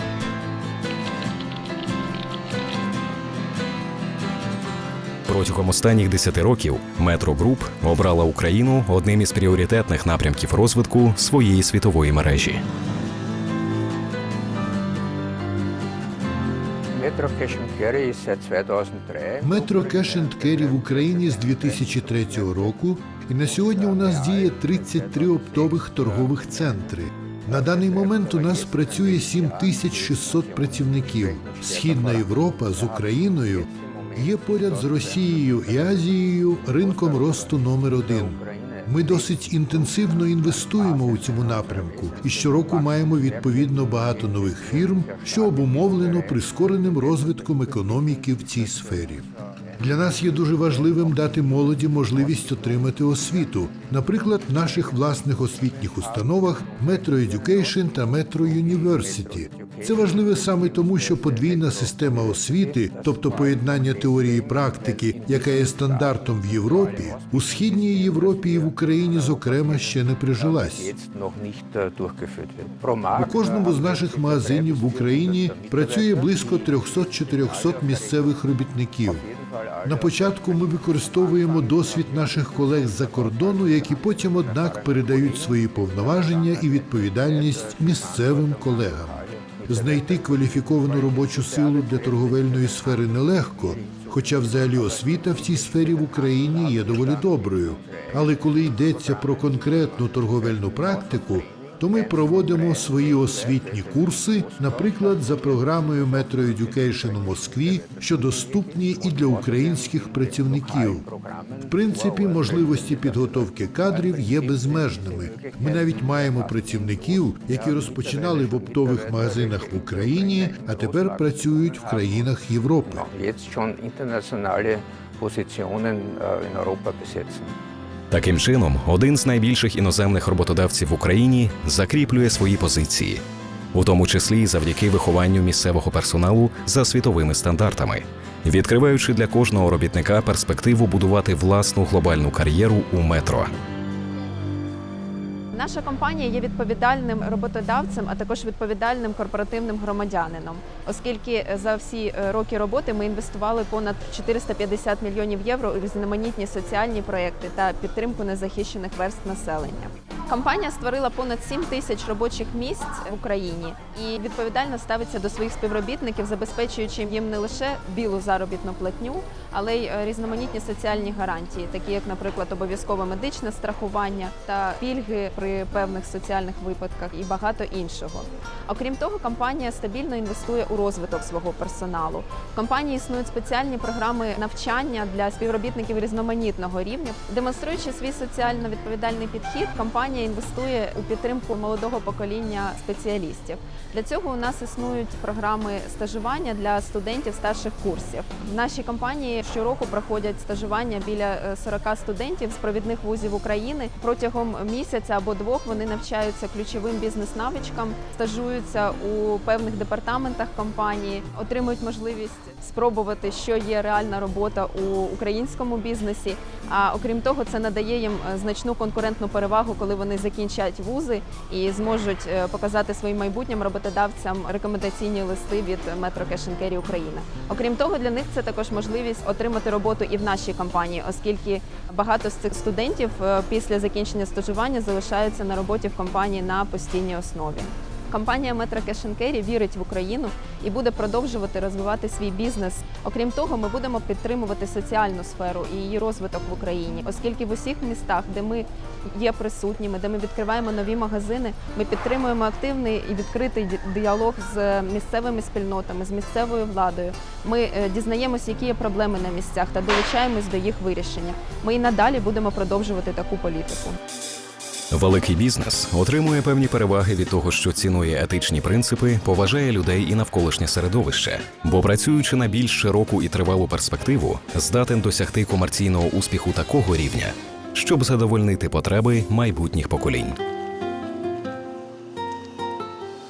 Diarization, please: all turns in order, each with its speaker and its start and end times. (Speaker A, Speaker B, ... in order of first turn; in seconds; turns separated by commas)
Speaker A: 5.3-12.6, Speaker B: 17.1-19.4, Speaker C: 19.4-49.2, Speaker B: 28.5-29.1, Speaker B: 31.4-31.9, Speaker B: 38.3-38.6, Speaker B: 40.9-42.7, Speaker B: 44.8-46.4, Speaker C: 49.8-71.0, Speaker B: 59.5-59.9, Speaker B: 61.1-61.7, Speaker B: 65.0-65.6, Speaker B: 70.8-76.6, Speaker C: 73.1-79.3, Speaker C: 79.8-111.1, Speaker B: 85.1-85.6, Speaker B: 87.8-88.5, Speaker B: 89.3-90.1, Speaker B: 91.1-92.5, Speaker B: 93.8-94.1, Speaker B: 95.5-97.3, Speaker B: 97.9-98.3, Speaker B: 99.0-99.5, Speaker B: 101.1-105.2, Speaker B: 106.5-107.9, Speaker B: 109.5-111.5, Speaker C: 111.6-123.1, Speaker B: 112.2-113.3, Speaker B: 115.2-115.6, Speaker B: 117.7-121.1, Speaker B: 123.1-127.5, Speaker A: 128.1-133.2, Speaker A: 133.7-143.5, Speaker D: 145.5-264.0, Speaker A: 264.9-280.4